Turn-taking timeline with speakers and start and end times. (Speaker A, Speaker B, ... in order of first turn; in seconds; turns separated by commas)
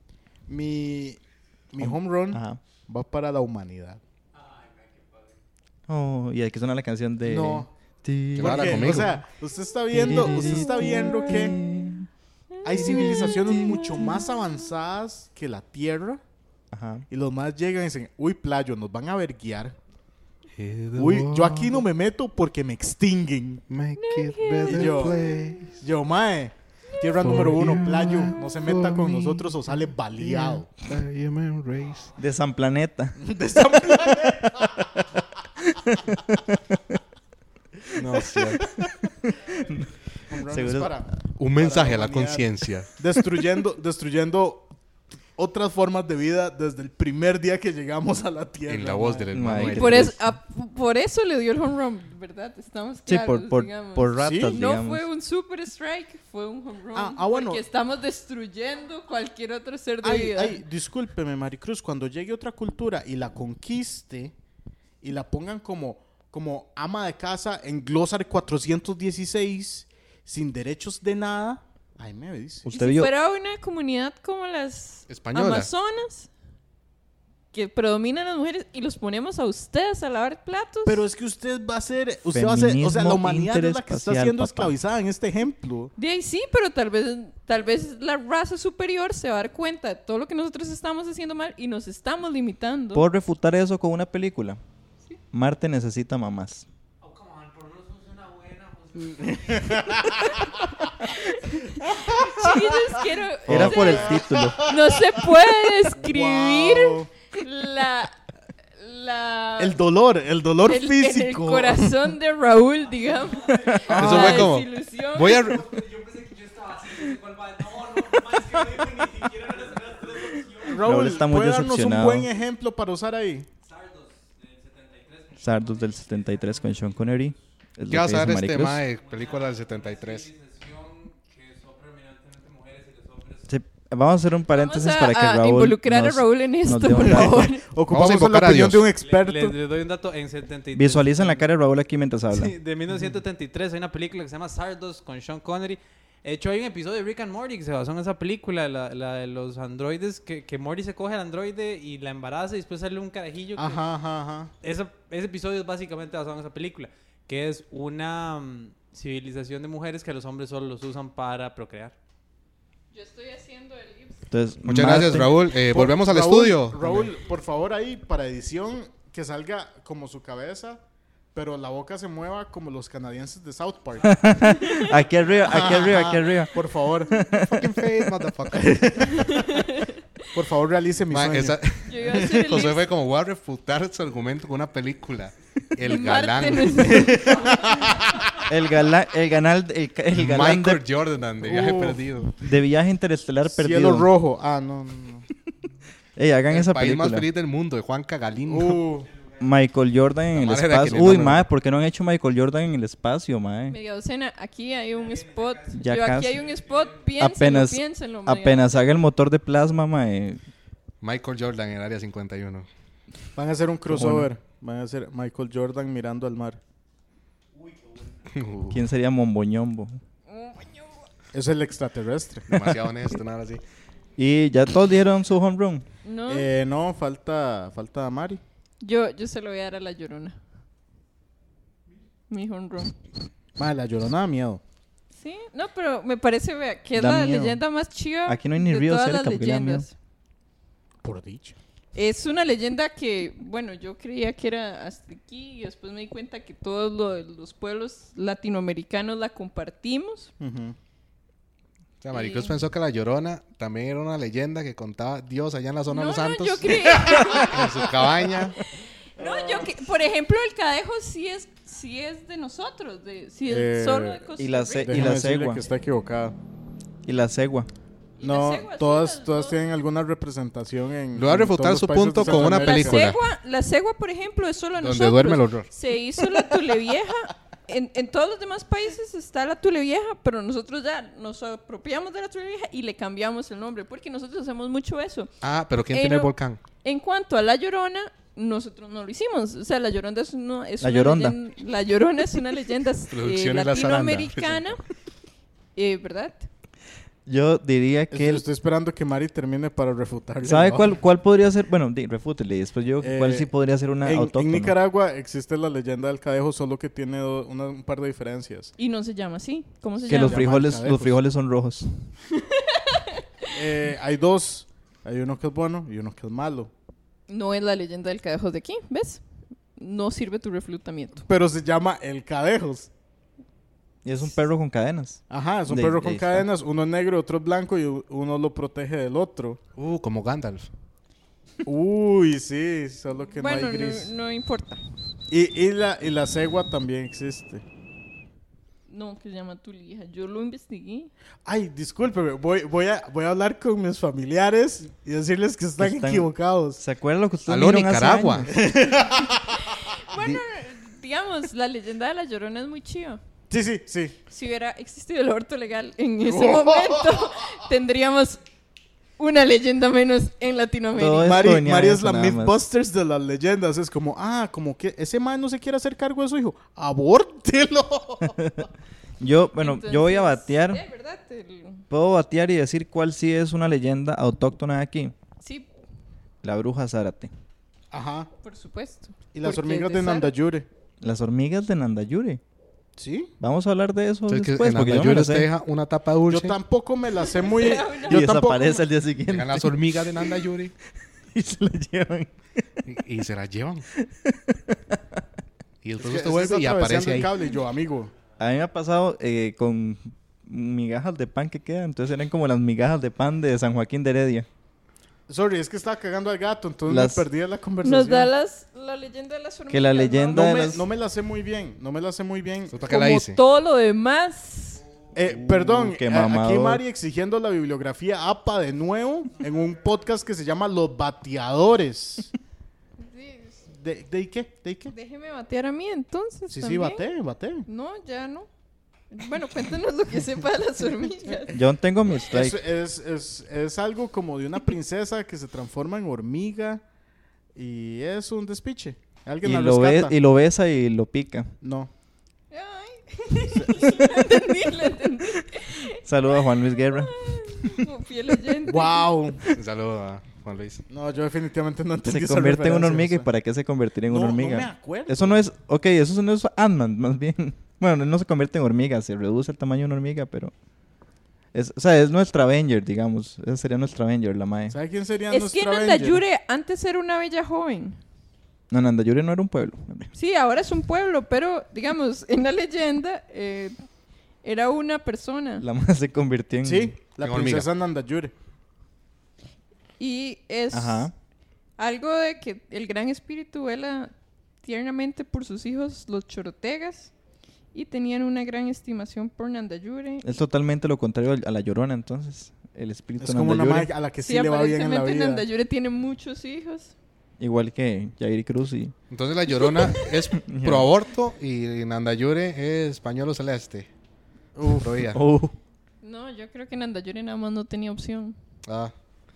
Speaker A: 0.5-1.2, Speaker A: 1.7-4.0, Speaker B: 1.8-2.6, Speaker C: 4.3-5.4, Speaker B: 5.9-9.2, Speaker A: 7.2-7.7, Speaker D: 8.3-9.2, Speaker A: 8.4-11.6, Speaker B: 9.9-12.1, Speaker A: 12.6-16.2, Speaker B: 12.7-14.2, Speaker E: 12.8-14.1, Speaker B: 16.7-17.1, Speaker A: 17.1-19.8, Speaker D: 20.5-21.9, Speaker A: 21.0-23.6, Speaker D: 23.7-25.8, Speaker E: 24.0-25.5, Speaker A: 24.6-25.2, Speaker A: 25.7-30.7, Speaker D: 27.2-32.1, Speaker B: 32.2-33.2, Speaker A: 33.2-34.7, Speaker B: 35.6-36.9, Speaker A: 37.9-38.6, Speaker D: 38.0-38.6, Speaker B: 39.0-39.8, Speaker A: 40.3-44.7, Speaker B: 40.5-41.0, Speaker D: 41.4-42.9, Speaker A: 45.4-49.3, Speaker D: 48.7-50.1, Speaker B: 49.3-50.2, Speaker E: 49.6-60.6, Speaker B: 53.1-55.0, Speaker A: 54.2-54.6, Speaker A: 56.9-57.6, Speaker A: 60.0-64.3, Speaker A: 65.0-72.7, Speaker B: 72.6-73.1, Speaker E: 72.7-76.3, Speaker D: 75.1-75.7, Speaker E: 77.5-81.0, Speaker A: 80.8-85.9, Speaker B: 82.3-84.7, Speaker E: 86.0-93.0, Speaker B: 92.9-94.6, Speaker B: 95.3-96.7, Speaker C: 97.0-100.5, Speaker E: 101.0-108.2, Speaker A: 101.9-102.8, Speaker B: 103.5-104.6, Speaker A: 103.5-104.8, Speaker A: 105.9-107.1, Speaker E: 108.8-109.8, Speaker A: 109.6-111.9, Speaker E: 110.6-115.6, Speaker C: 113.2-114.1, Speaker A: 113.9-114.5, Speaker D: 113.9-115.7, Speaker C: 115.3-120.8, Speaker A: 120.6-123.5, Speaker B: 120.7-122.3, Speaker C: 123.6-127.3, Speaker B: 125.4-128.8, Speaker D: 127.9-130.3, Speaker C: 128.9-133.5, Speaker B: 133.5-137.5, Speaker E: 134.5-137.7, Speaker A: 137.0-139.6, Speaker D: 137.9-138.9, Speaker C: 139.0-141.5, Speaker B: 140.7-142.5, Speaker C: 142.3-153.8, Speaker A: 153.6-154.5, Speaker C: 154.6-161.9, Speaker E: 162.9-164.3, Speaker B: 164.3-165.3, Speaker D: 164.7-167.1, Speaker A: 165.7-170.8, Speaker A: 171.3-174.9, Speaker B: 174.0-177.8, Speaker A: 175.4-177.2, Speaker D: 177.3-179.1, Speaker A: 178.5-179.7, Speaker E: 179.1-180.2, Speaker A: 180.3-182.6, Speaker D: 181.1-188.2, Speaker E: 181.8-182.9, Speaker E: 185.8-187.7, Speaker A: 187.0-187.5, Speaker B: 188.5-190.8, Speaker D: 190.1-192.4, Speaker A: 191.4-192.1, Speaker B: 192.4-194.1, Speaker A: 193.4-195.2, Speaker B: 196.2-197.3, Speaker D: 196.5-198.8, Speaker A: 198.5-199.1, Speaker B: 199.4-203.8, Speaker D: 200.3-201.5, Speaker E: 203.7-208.7, Speaker B: 205.7-206.4, Speaker B: 207.2-210.4, Speaker D: 211.0-212.7, Speaker A: 213.3-216.6, Speaker B: 213.8-214.3, Speaker D: 218.3-218.8, Speaker B: 218.7-220.0, Speaker E: 220.3-221.1, Speaker A: 221.3-222.5, Speaker D: 222.5-223.6, Speaker B: 224.2-225.8, Speaker E: 226.0-226.5, Speaker A: 226.3-228.4, Speaker E: 228.8-230.4, Speaker E: 232.3-233.0, Speaker A: 233.6-234.6, Speaker E: 235.2-239.9, Speaker B: 236.9-237.6, Speaker B: 238.3-239.9, Speaker A: 241.0-241.6, Speaker E: 241.9-250.3, Speaker A: 250.4-250.8, Speaker D: 252.0-258.6, Speaker E: 252.1-252.6, Speaker E: 255.9-265.0, Speaker A: 257.4-257.9, Speaker A: 263.5-264.2, Speaker B: 264.4-265.6, Speaker A: 264.8-266.3, Speaker B: 267.0-267.7, Speaker E: 268.2-269.6, Speaker A: 268.2-273.1, Speaker D: 271.1-273.2, Speaker E: 272.2-285.3, Speaker D: 274.8-275.7, Speaker D: 285.4-286.6, Speaker E: 285.9-294.8, Speaker B: 290.8-291.4, Speaker D: 293.1-294.7, Speaker E: 295.8-296.5, Speaker B: 297.2-298.4, Speaker A: 298.1-300.9, Speaker B: 300.4-304.8, Speaker A: 303.0-303.5, Speaker A: 304.0-308.7, Speaker E: 308.8-310.4, Speaker A: 310.0-311.1, Speaker B: 310.1-312.1, Speaker E: 312.3-313.5, Speaker A: 313.5-316.7, Speaker E: 317.3-319.2, Speaker E: 319.7-321.3, Speaker A: 321.3-322.9, Speaker B: 324.0-326.4, Speaker A: 325.3-329.6, Speaker D: 329.8-330.7, Speaker A: 331.6-334.1, Speaker E: 333.3-334.8, Speaker A: 335.3-337.6, Speaker E: 338.9-341.1, Speaker A: 341.4-346.8, Speaker B: 345.8-348.5, Speaker D: 347.5-348.5, Speaker A: 348.5-349.6, Speaker E: 349.4-353.2, Speaker A: 353.5-354.2, Speaker E: 354.3-358.4, Speaker A: 356.2-357.2, Speaker E: 359.2-361.4, Speaker B: 360.9-362.6, Speaker A: 361.2-368.5, Speaker B: 368.4-368.7, Speaker B: 369.2-370.8, Speaker E: 369.6-371.8, Speaker B: 371.9-375.1, Speaker E: 375.4-375.7, Speaker B: 376.4-377.3, Speaker A: 377.9-378.3, Speaker E: 378.4-380.3, Speaker A: 379.3-380.7, Speaker B: 381.0-382.4, Speaker A: 383.0-383.3, Speaker B: 383.4-385.5, Speaker D: 384.3-386.6, Speaker A: 386.3-388.8, Speaker E: 387.2-388.5, Speaker B: 388.1-389.9, Speaker D: 389.3-390.7, Speaker B: 391.3-392.8, Speaker D: 392.9-393.9, Speaker B: 393.9-395.0, Speaker D: 395.8-397.3, Speaker A: 396.0-398.1, Speaker B: 398.4-404.5, Speaker A: 405.3-408.3, Speaker B: 406.9-407.2, Speaker E: 407.8-410.7, Speaker B: 409.7-410.8, Speaker A: 410.3-413.1, Speaker D: 412.7-413.4, Speaker E: 412.9-414.8, Speaker A: 415.1-422.3, Speaker B: 415.2-416.8, Speaker E: 423.0-423.6, Speaker A: 423.7-424.9, Speaker E: 424.9-427.1, Speaker A: 426.5-427.6, Speaker E: 427.7-428.5, Speaker E: 429.1-431.6, Speaker B: 431.5-432.6, Speaker A: 432.3-436.8, Speaker A: 437.5-440.1, Speaker B: 439.4-441.5, Speaker A: 441.6-441.9, Speaker E: 442.5-449.1, Speaker A: 443.5-443.9, Speaker B: 445.5-447.7, Speaker A: 448.6-449.4, Speaker D: 449.5-450.8, Speaker A: 450.9-453.3, Speaker B: 452.0-460.5, Speaker A: 454.1-455.4, Speaker B: 461.5-464.8, Speaker A: 464.7-466.2, Speaker E: 465.3-468.0, Speaker B: 468.7-470.1, Speaker E: 470.1-473.8, Speaker E: 474.4-475.6, Speaker B: 475.6-476.9, Speaker A: 476.6-478.3, Speaker D: 477.2-477.7, Speaker E: 480.0-481.1, Speaker B: 480.7-481.1, Speaker E: 481.8-484.1, Speaker E: 484.6-487.1, Speaker E: 487.7-490.2, Speaker B: 490.2-493.9, Speaker A: 493.2-495.4, Speaker E: 494.2-496.9, Speaker B: 497.4-498.9, Speaker D: 499.1-503.9, Speaker E: 499.6-500.2, Speaker B: 500.4-500.9, Speaker A: 504.6-504.9, Speaker D: 504.8-505.2, Speaker B: 505.1-505.5, Speaker E: 506.0-508.4, Speaker D: 508.6-508.9